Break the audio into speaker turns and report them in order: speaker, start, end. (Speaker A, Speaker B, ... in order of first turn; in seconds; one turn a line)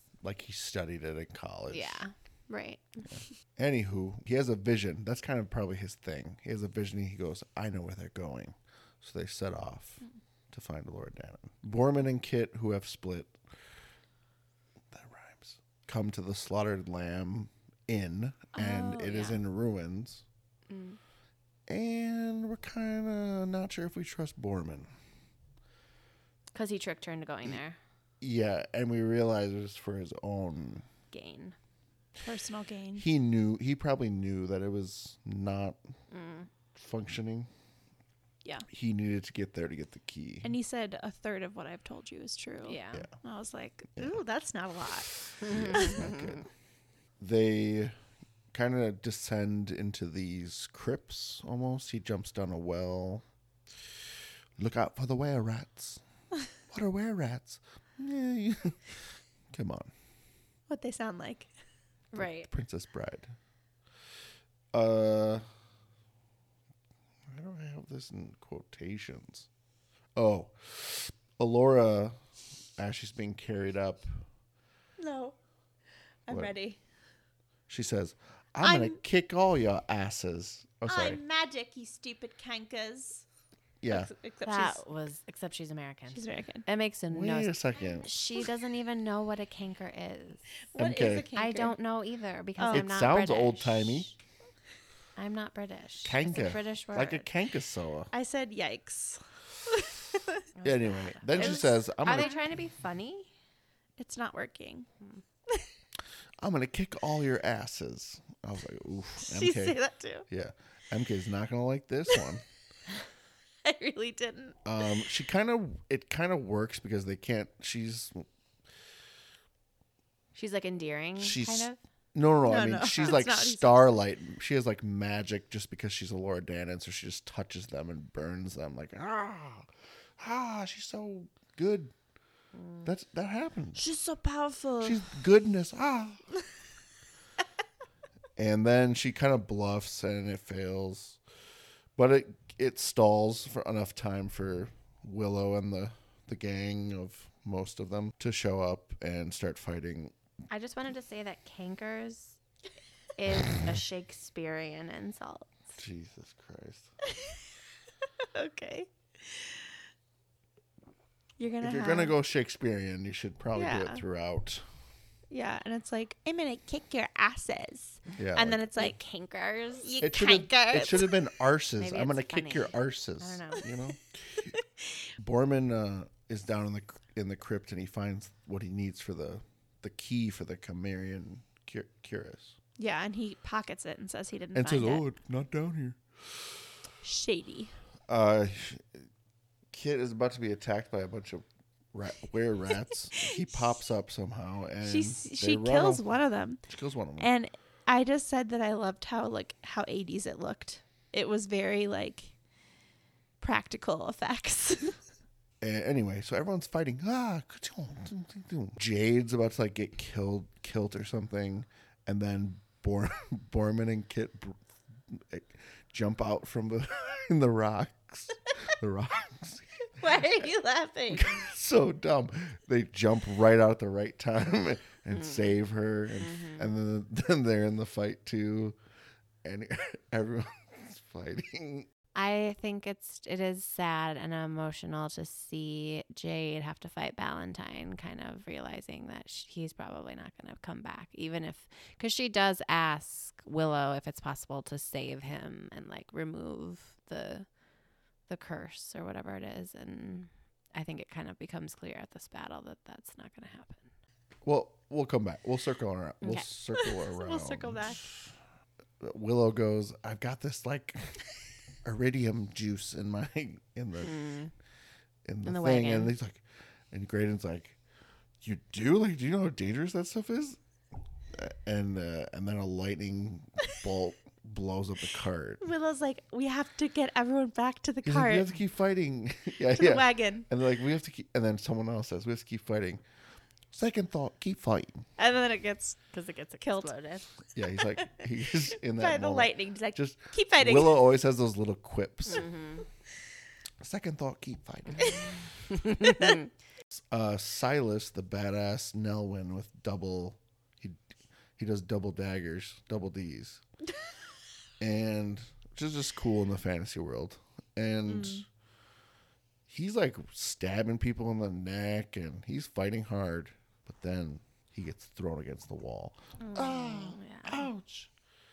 Speaker A: 0.2-2.0
Speaker B: 1.7-3.1
Speaker A: 3.1-13.4
Speaker A: 14.9-20.2
Speaker C: 18.6-19.4
Speaker B: 20.7-21.0
Speaker A: 21.7-24.9
Speaker B: 26.6-27.8
Speaker A: 28.2-30.9
Speaker B: 31.1-31.6
Speaker C: 32.2-33.1
Speaker A: 33.0-35.8
Speaker B: 36.1-36.5
Speaker A: 36.8-37.5
Speaker A: 38.7-40.5
Speaker C: 40.4-45.2
Speaker B: 42.6-43.1
Speaker B: 45.4-46.4
Speaker A: 45.4-46.5
Speaker C: 45.7-46.0
Speaker A: 47.2-47.9
Speaker A: 48.5-53.2
Speaker A: 54.6-56.0
Speaker A: 56.7-59.9
Speaker C: 60.7-61.5
Speaker B: 62.1-62.5
Speaker A: 62.2-63.3
Speaker A: 64.7-65.4
Speaker A: 67.3-69.5
Speaker A: 70.2-72.2
Speaker A: 72.8-74.2
Speaker C: 75.0-75.4
Speaker C: 76.3-76.8
Speaker A: 76.3-76.5
Speaker A: 77.7-81.2
Speaker C: 78.6-79.0
Speaker C: 80.9-83.2
Speaker A: 83.8-84.1
Speaker C: 83.9-84.8
Speaker B: 84.5-90.5
Speaker C: 86.1-86.7
Speaker A: 87.1-88.1
Speaker C: 90.7-91.8
Speaker A: 90.8-91.3
Speaker B: 91.3-94.1
Speaker C: 92.6-92.9
Speaker A: 92.7-94.1
Speaker B: 95.2-97.3
Speaker A: 96.0-98.1
Speaker C: 98.1-100.4
Speaker B: 100.6-103.3
Speaker A: 100.6-102.3
Speaker C: 101.3-102.4
Speaker C: 104.0-104.9
Speaker A: 106.4-109.8
Speaker C: 109.2-110.3
Speaker A: 110.3-112.5
Speaker C: 113.6-114.6
Speaker A: 114.7-118.3
Speaker B: 120.3-121.8
Speaker A: 121.2-131.9
Speaker C: 122.5-123.9
Speaker A: 132.8-133.8
Speaker C: 133.8-135.1
Speaker A: 134.8-136.2
Speaker A: 138.4-141.2
Speaker A: 142.0-150.1
Speaker B: 150.5-152.4
Speaker B: 153.2-155.6
Speaker A: 155.8-156.9
Speaker C: 157.1-157.4
Speaker C: 158.2-159.7
Speaker C: 161.4-162.1
Speaker A: 161.6-164.6
Speaker C: 163.5-164.0
Speaker C: 165.3-169.0
Speaker A: 168.1-168.6
Speaker B: 168.8-170.0
Speaker C: 169.8-171.2
Speaker A: 170.0-174.5
Speaker B: 171.8-173.7
Speaker A: 175.2-182.6
Speaker C: 182.8-185.0
Speaker A: 184.6-186.6
Speaker C: 187.0-187.8
Speaker A: 188.1-189.1
Speaker A: 189.7-196.0
Speaker C: 194.8-196.6
Speaker A: 196.7-197.3
Speaker C: 197.2-202.3
Speaker C: 203.4-205.0
Speaker A: 205.6-220.5
Speaker C: 220.0-221.3
Speaker A: 221.1-228.8
Speaker B: 225.2-225.4
Speaker B: 226.2-226.7
Speaker A: 229.4-231.9
Speaker B: 232.2-247.5
Speaker B: 248.3-253.9
Speaker A: 254.4-258.3
Speaker B: 256.2-256.5
Speaker C: 256.9-258.1
Speaker A: 259.0-261.2
Speaker A: 261.8-264.2
Speaker B: 264.0-264.5
Speaker A: 265.3-267.8
Speaker B: 265.4-266.1
Speaker A: 268.4-270.6
Speaker A: 271.3-275.6
Speaker C: 275.6-278.5
Speaker A: 278.1-283.0
Speaker C: 279.7-280.5
Speaker A: 283.7-285.1
Speaker C: 285.2-286.0
Speaker B: 286.1-287.3
Speaker C: 286.6-286.9
Speaker A: 287.6-292.5
Speaker C: 288.0-291.0
Speaker B: 292.3-292.9
Speaker A: 293.8-295.4
Speaker B: 295.8-296.4
Speaker A: 296.9-301.0
Speaker A: 301.6-303.6
Speaker A: 304.8-308.5
Speaker C: 308.1-308.4
Speaker A: 309.7-318.1
Speaker B: 316.4-317.7